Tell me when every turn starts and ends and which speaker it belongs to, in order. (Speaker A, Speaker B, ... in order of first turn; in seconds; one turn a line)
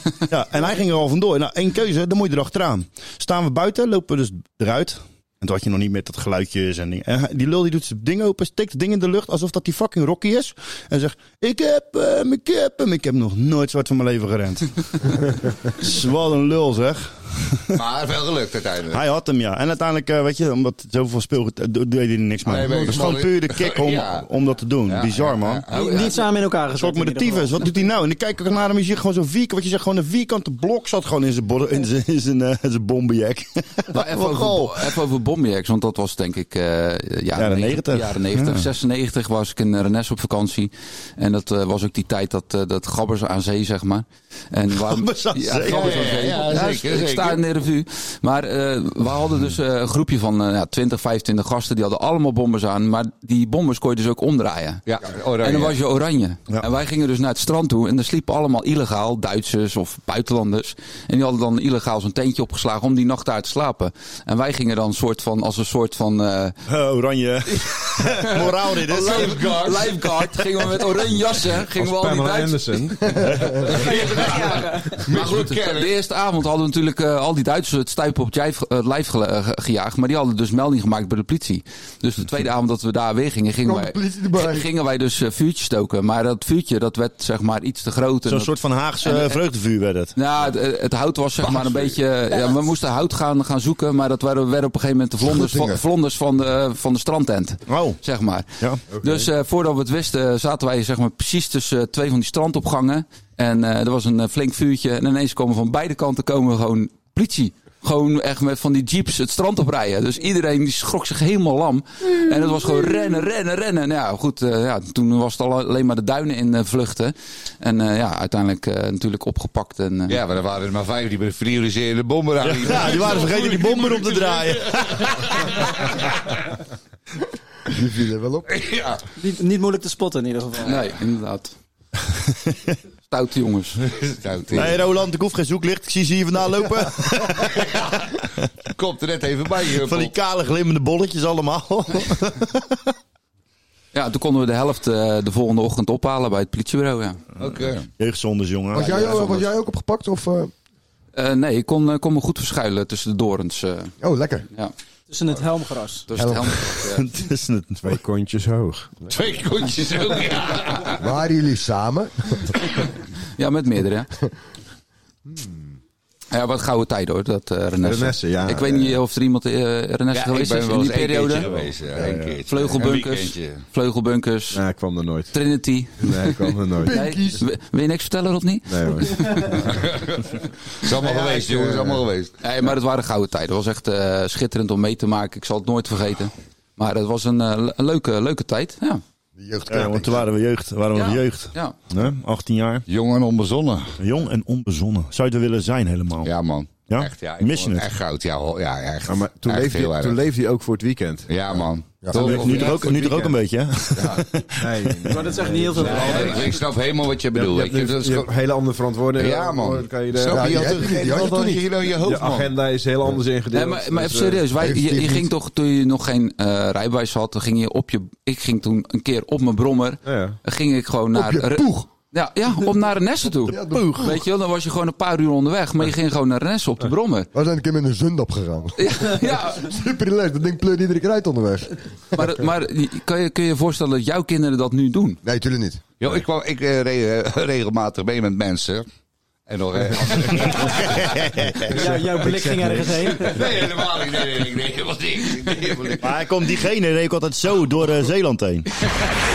Speaker A: 0.3-17.8
Speaker B: 17.7-19.0
Speaker A: 18.9-25.7
Speaker B: 22.4-24.3
Speaker C: 22.7-23.1
Speaker B: 24.9-26.2
Speaker D: 25.7-27.7
Speaker A: 26.8-34.9
Speaker E: 33.9-54.8
Speaker A: 37.4-38.7
Speaker A: 44.7-46.2
Speaker B: 45.6-47.4
Speaker B: 54.9-55.8
Speaker E: 55.4-66.6
Speaker A: 66.7-69.4
Speaker E: 67.5-72.8
Speaker B: 68.9-70.2
Speaker F: 71.8-73.6
Speaker D: 73.7-75.0
Speaker B: 73.8-76.0
Speaker E: 75.1-89.4
Speaker C: 83.6-84.7
Speaker A: 88.3-90.1
Speaker E: 90.2-120.2
Speaker B: 91.4-92.0
Speaker C: 95.2-95.8
Speaker A: 97.7-98.0
Speaker F: 98.9-99.3
Speaker B: 120.1-126.1
Speaker A: 122.4-125.1
Speaker C: 127.7-128.5
Speaker B: 128.5-129.0
Speaker D: 129.2-130.8
Speaker E: 130.6-131.5
Speaker E: 133.1-133.8
Speaker B: 133.9-134.8
Speaker A: 134.6-137.5
Speaker B: 137.4-138.1
Speaker B: 138.7-140.1
Speaker A: 139.8-142.9
Speaker E: 143.9-147.2
Speaker B: 147.4-147.9
Speaker A: 148.0-149.3
Speaker C: 148.7-150.5
Speaker E: 148.8-149.4
Speaker E: 151.1-153.9
Speaker C: 154.0-154.5
Speaker D: 155.1-156.1
Speaker E: 156.1-157.1
Speaker C: 156.1-156.6
Speaker A: 156.9-158.0
Speaker F: 157.8-159.0
Speaker B: 159.1-161.0
Speaker C: 161.0-162.5
Speaker E: 163.4-164.1
Speaker E: 166.3-171.4
Speaker F: 167.8-169.0
Speaker B: 170.1-173.6
Speaker F: 171.4-172.3
Speaker A: 172.1-172.3
Speaker E: 172.4-174.6
Speaker F: 174.5-175.3
Speaker E: 175.3-179.7
Speaker F: 176.0-177.0
Speaker C: 176.8-177.4
Speaker F: 178.7-179.3
Speaker B: 179.7-180.3
Speaker B: 180.8-182.3
Speaker F: 181.0-182.0
Speaker E: 182.4-189.0
Speaker C: 189.4-190.3
Speaker A: 189.7-192.8
Speaker E: 190.9-191.8
Speaker B: 192.9-194.0
Speaker A: 194.0-196.3
Speaker B: 196.2-200.2
Speaker A: 196.9-197.9
Speaker F: 199.1-203.3
Speaker B: 201.3-203.3
Speaker C: 202.0-202.4
Speaker A: 202.1-205.1
Speaker B: 204.0-204.2
Speaker F: 204.6-206.6
Speaker D: 205.1-206.6
Speaker B: 205.8-208.3
Speaker F: 207.3-211.0
Speaker B: 209.1-212.6
Speaker C: 210.3-211.6
Speaker F: 212.0-214.5
Speaker E: 213.5-227.3
Speaker C: 214.6-215.3
Speaker F: 220.1-220.4
Speaker C: 221.1-221.9
Speaker C: 223.5-223.9
Speaker A: 223.7-224.1
Speaker C: 227.3-232.2
Speaker E: 228.8-229.7
Speaker E: 232.1-235.2
Speaker C: 235.2-235.8
Speaker B: 236.0-238.9
Speaker B: 239.5-241.1
Speaker F: 240.0-240.4
Speaker A: 241.0-241.7
Speaker D: 241.7-243.4
Speaker F: 241.7-243.4
Speaker B: 243.1-246.1
Speaker A: 246.0-248.7